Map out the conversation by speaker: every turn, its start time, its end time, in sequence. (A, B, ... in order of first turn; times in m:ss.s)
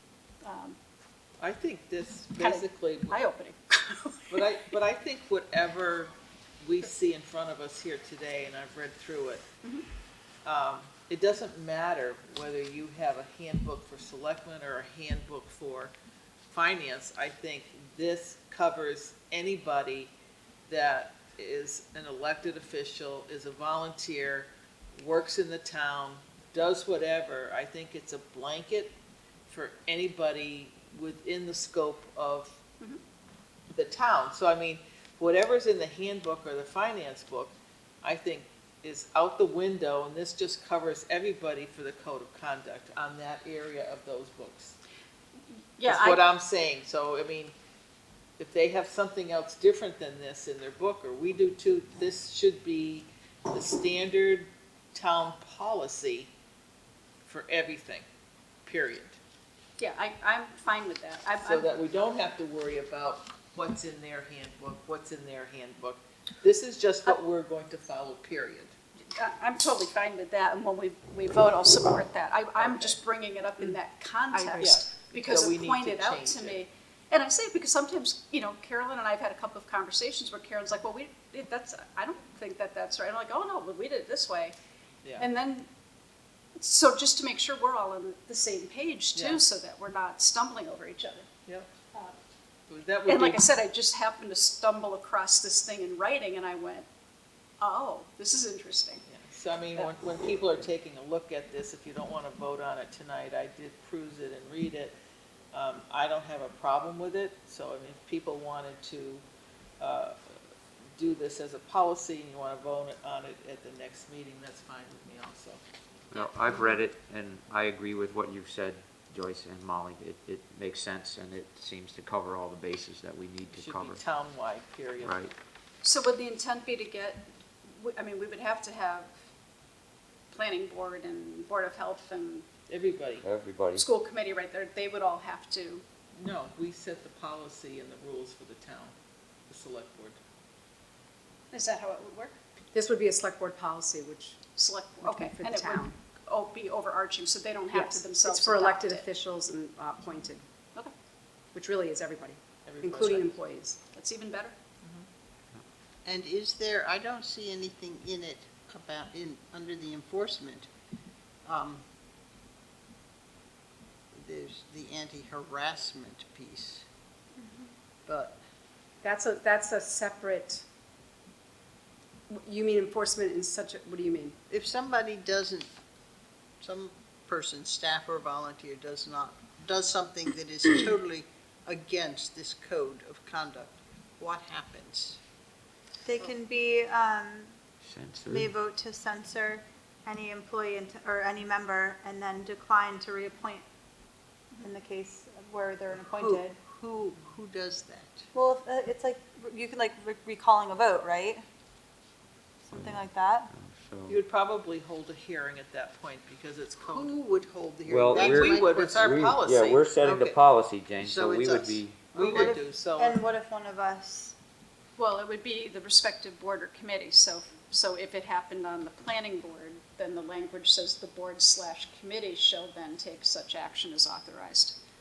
0:00.4-0:00.8 A
0:01.4-0:03.2 B
0:02.4-0:04.4 A
0:04.3-0:09.4 B
0:10.4-0:15.9 B
0:16.5-0:20.1 B
0:20.7-0:28.9 B
0:29.5-0:32.6 B
0:33.7-0:44.8 B
0:45.8-0:46.2 A
0:45.8-0:47.5 B
0:48.4-0:56.3 B
0:57.2-0:58.0 B
0:58.6-0:59.2 B
0:59.8-1:01.7 A
1:01.4-1:08.7 B
1:09.2-1:24.5 A
1:12.6-1:13.0 B
1:14.3-1:14.7 C
1:14.6-1:16.6 B
1:25.2-1:25.7 A
1:26.6-1:31.3 A
1:29.1-1:29.4 B
1:32.7-1:33.4 B
1:33.1-1:36.9 A
1:37.6-1:39.0 A
1:39.1-1:44.9 B
1:45.5-1:49.2 B
1:49.8-1:50.2 B
1:51.0-1:55.6 B
1:56.1-2:04.0 D
1:56.1-1:56.8 A
2:03.5-2:05.2 B
2:05.0-2:05.3 D
2:05.8-2:09.2 A
2:10.3-2:12.5 A
2:12.7-2:13.2 B
2:13.2-2:13.8 D
2:13.7-2:15.8 A
2:16.1-2:18.9 B
2:19.5-2:20.2 B
2:21.5-2:22.4 A
2:22.7-2:24.4 C
2:24.6-2:29.0 A
2:25.0-2:26.0 C
2:27.7-2:30.4 C
2:31.5-2:33.8 C
2:32.6-2:33.4 B
2:33.9-2:34.5 A
2:36.0-2:40.7 E
2:41.4-2:41.8 E
2:44.1-2:46.8 E
2:47.4-2:47.7 F
2:48.0-2:48.4 E
2:49.0-2:50.6 C
2:52.3-2:54.4 C
2:54.5-2:55.7 E
2:56.6-3:05.2 E
3:06.0-3:07.6 F
3:07.8-3:08.5 D
3:08.3-3:13.6 F
3:14.6-3:16.6 F
3:16.2-3:18.2 E
3:18.3-3:21.4 F
3:22.6-3:23.5 F
3:22.7-3:24.2 D
3:24.1-3:27.2 B
3:26.9-3:29.3 E
3:27.8-3:32.1 D
3:28.1-3:29.8 B
3:30.0-3:30.4 E
3:31.0-3:32.5 E
3:32.1-3:33.2 B
3:32.2-3:34.3 F
3:35.0-3:44.8 A